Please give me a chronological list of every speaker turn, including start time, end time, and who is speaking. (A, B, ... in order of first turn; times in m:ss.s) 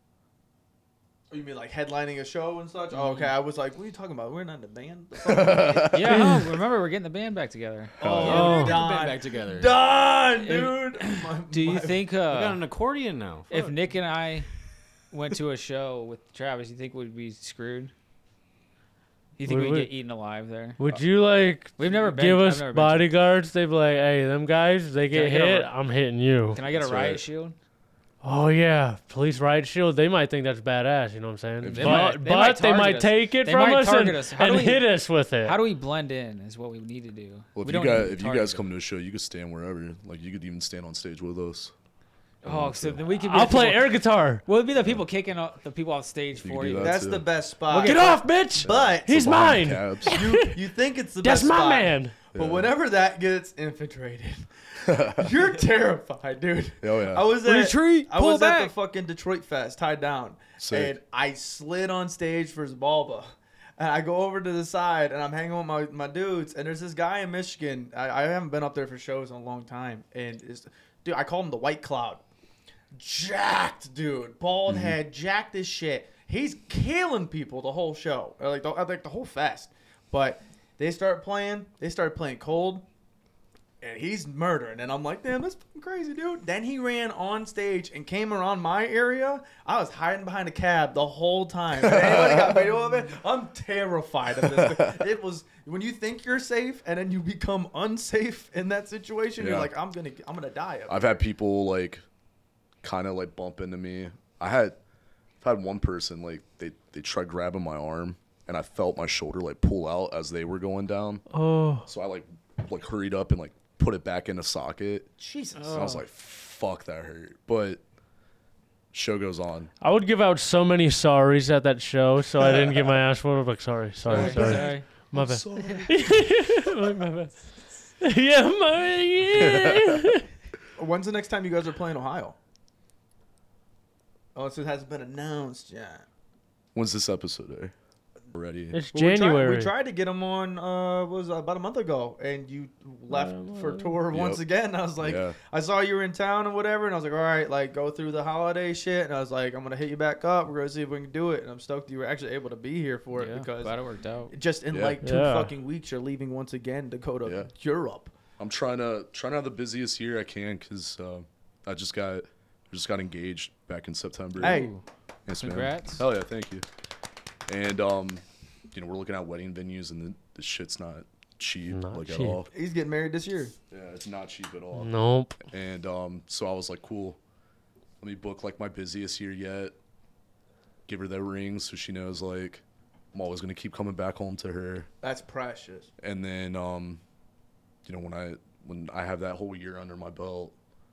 0:01.3-0:06.2 A
0:02.9-0:03.4 B
0:05.2-0:06.2 C
0:05.9-0:08.6 B
0:06.1-0:06.4 D
0:08.0-0:08.4 C
0:08.0-0:12.0 A
0:08.0-0:09.8 E
0:08.2-0:08.8 D
0:10.4-0:12.6 B
0:12.3-0:13.8 E
0:13.5-0:14.5 B
0:15.1-0:17.9 B
0:19.4-0:20.8 B
0:19.4-0:19.9 D
0:20.8-0:26.6 D
0:21.8-0:23.1 B
0:25.1-0:25.7 B
0:26.5-0:27.6 B
0:26.7-0:27.2 C
0:28.2-0:35.6 D
0:31.6-0:32.2 C
0:31.7-0:38.6 B
0:37.6-0:41.7 C
0:42.4-0:47.0 B
0:42.4-0:43.0 C
0:43.2-0:44.4 D
0:44.8-0:45.0 C
0:46.4-0:47.3 C
0:46.8-0:49.4 A
0:47.7-0:48.2 B
0:47.8-0:50.6 D
0:48.6-0:50.2 C
0:50.0-1:12.2 A
0:51.2-0:52.1 D
0:52.3-0:52.7 C
0:54.9-0:55.3 C
0:56.8-0:57.4 C
0:57.4-0:58.7 B
1:00.6-1:01.0 C
1:12.9-1:22.9 A
1:14.7-1:15.0 C
1:23.8-1:41.2 A
1:31.8-1:32.7 C
1:34.4-1:35.0 C
1:39.4-1:39.7 C
1:40.9-1:42.0 C
1:42.8-1:44.8 C
1:45.4-1:51.2 C
1:51.3-1:51.9 D
1:51.9-1:55.1 C
1:55.2-1:56.0 A
1:55.6-1:56.0 B
1:55.7-1:57.8 C
1:58.9-1:59.7 C
1:59.8-2:07.4 D
2:04.1-2:04.8 B
2:04.1-2:04.8 A
2:04.2-2:05.9 C
2:08.0-2:10.3 D
2:09.4-2:10.0 C
2:10.8-2:12.4 A
2:14.4-2:16.1 A
2:16.8-2:17.7 C
2:18.3-2:18.8 C
2:18.7-2:19.7 D
2:18.9-2:33.8 A
2:23.1-2:24.0 D
2:24.1-2:24.4 C
2:25.0-2:25.4 C
2:33.1-2:34.3 B
2:34.3-2:38.1 A
2:34.7-2:35.0 C
2:35.0-2:35.5 D
2:37.2-2:37.5 C
2:38.4-2:44.7 C
2:44.4-2:44.7 A
2:44.4-2:44.8 B
2:45.3-2:46.6 C
2:45.4-2:46.0 B
2:47.5-2:52.5 C
2:51.7-2:52.4 D
2:52.5-2:53.6 A
2:53.7-2:54.9 C
2:54.8-2:55.4 D
2:55.4-2:57.2 C
2:58.0-2:59.8 C
3:00.9-3:04.9 C
3:05.0-3:05.9 A
3:06.0-3:07.0 C
3:07.8-3:10.6 C